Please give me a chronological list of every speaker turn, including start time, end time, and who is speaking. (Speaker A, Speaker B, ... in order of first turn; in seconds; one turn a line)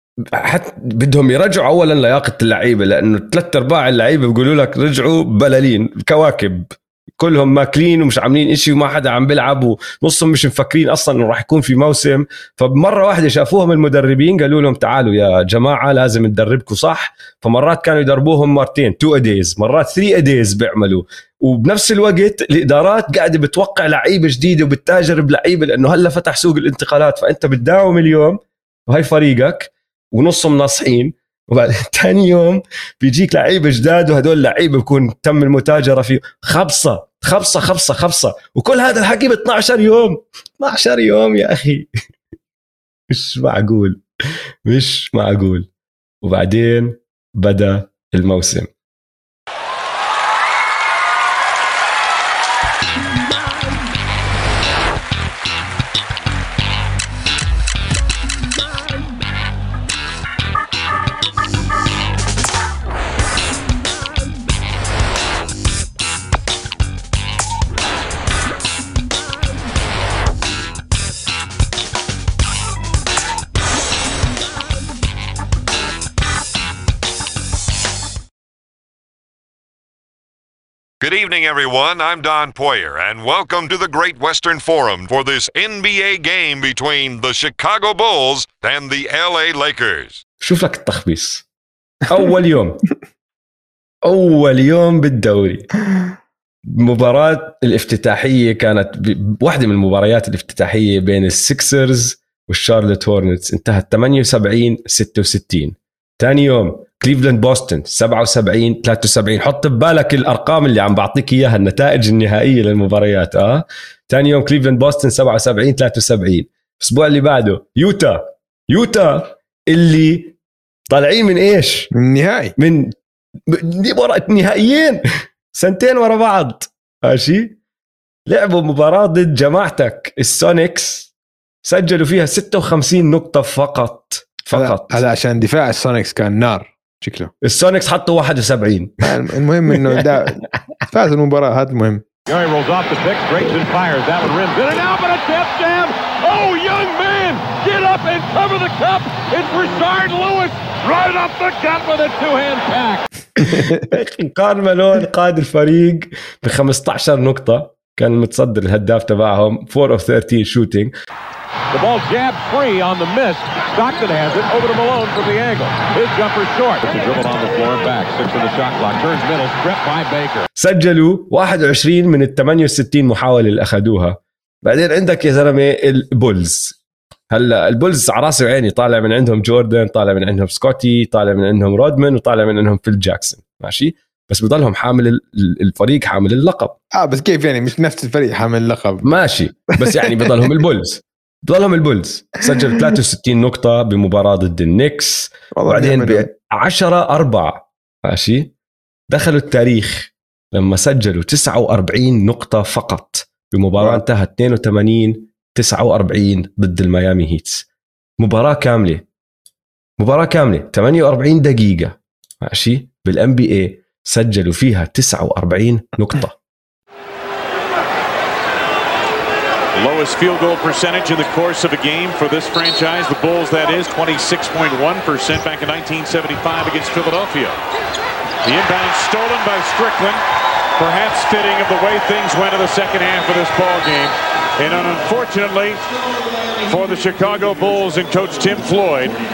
Speaker A: 0.4-41.9
Speaker A: 43.1-44.0
Speaker A: 44.6-45.7
Speaker A: 46.2-48.7
Speaker B: 81.0-90.2
Speaker A: 90.4-91.4
Speaker A: 92.1-92.8
Speaker A: 94.0-95.7
Speaker A: 96.7-120.3
Speaker A: 120.9-121.9
Speaker C: 121.9-122.5
Speaker A: 122.6-122.9
Speaker A: 123.5-125.0
Speaker A: 125.5-127.5
Speaker A: 128.3-131.1
Speaker A: 131.6-135.0
Speaker C: 134.5-137.3
Speaker A: 137.4-139.1
Speaker C: 139.0-142.0
Speaker A: 139.7-140.2
Speaker D: 143.1-143.8
Speaker D: 144.6-145.8
Speaker D: 146.3-149.0
Speaker D: 149.6-151.2
Speaker D: 151.9-152.6
Speaker A: 153.4-160.9
Speaker C: 153.5-153.9
Speaker D: 161.8-163.2
Speaker D: 163.8-165.6
Speaker D: 166.3-168.6
Speaker A: 170.6-176.8
Speaker A: 177.3-186.7
Speaker C: 186.9-189.0
Speaker A: 189.0-198.5
Speaker C: 189.8-190.4
Speaker C: 195.6-196.3
Speaker A: 199.1-207.6
Speaker C: 203.8-204.0
Speaker A: 208.2-209.0
Speaker A: 210.0-216.3
Speaker E: 219.7-227.6
Speaker E: 228.4-230.2
Speaker E: 230.8-235.8
Speaker E: 236.7-239.1